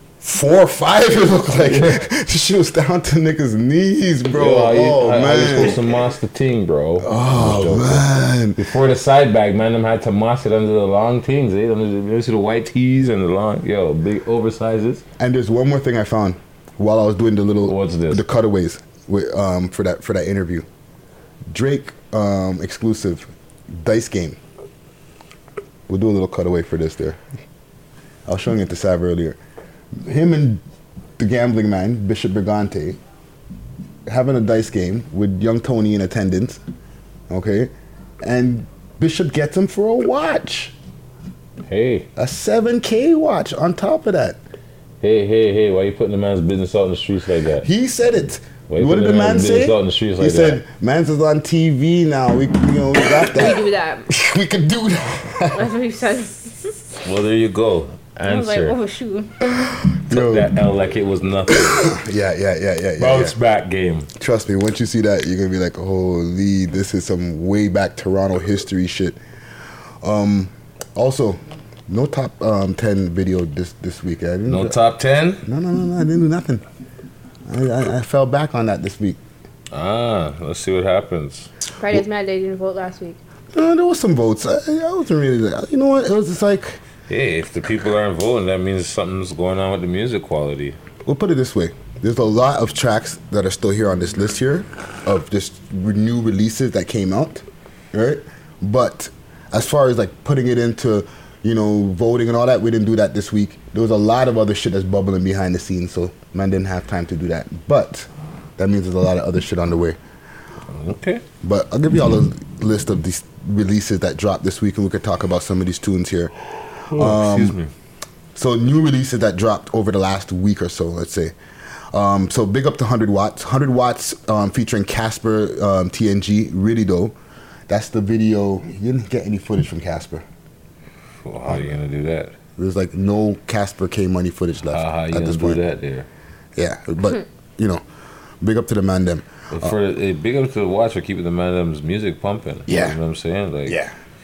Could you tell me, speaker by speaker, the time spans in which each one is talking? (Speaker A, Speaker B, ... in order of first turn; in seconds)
Speaker A: 0.2-5.8, 7.0-8.6, 15.2-20.7, 21.5-24.4, 25.9-27.2, 28.3-29.4, 30.0-30.6, 31.2-33.0, 34.1-36.6, 37.3-40.7, 42.2-44.4, 47.6-55.7, 60.1-60.5, 61.5-63.3, 64.2-69.2, 70.0-74.7, 75.4-76.6, 77.5-79.2, 83.5-86.8, 91.0-110.0, 111.4-116.3, 116.9-117.6, 118.3-121.3, 121.9-127.2, 127.7-130.2, 131.5-131.8, 132.6-135.6, 136.6-137.8, 138.4-139.7, 142.7-143.0, 143.7-143.9
Speaker B: 1.6-2.0, 4.3-15.0, 17.7-18.2, 41.6-42.1, 45.0-47.6, 48.7-50.6, 57.0-58.8, 60.1-61.9, 63.0-64.1, 74.5-75.4, 79.7-81.5, 87.1-90.8, 110.7-111.2, 116.9-117.7, 131.2-132.3, 134.7-136.1, 139.5-143.8
Speaker C: 53.3-54.0, 55.5-56.8, 58.2-59.3, 81.8-83.2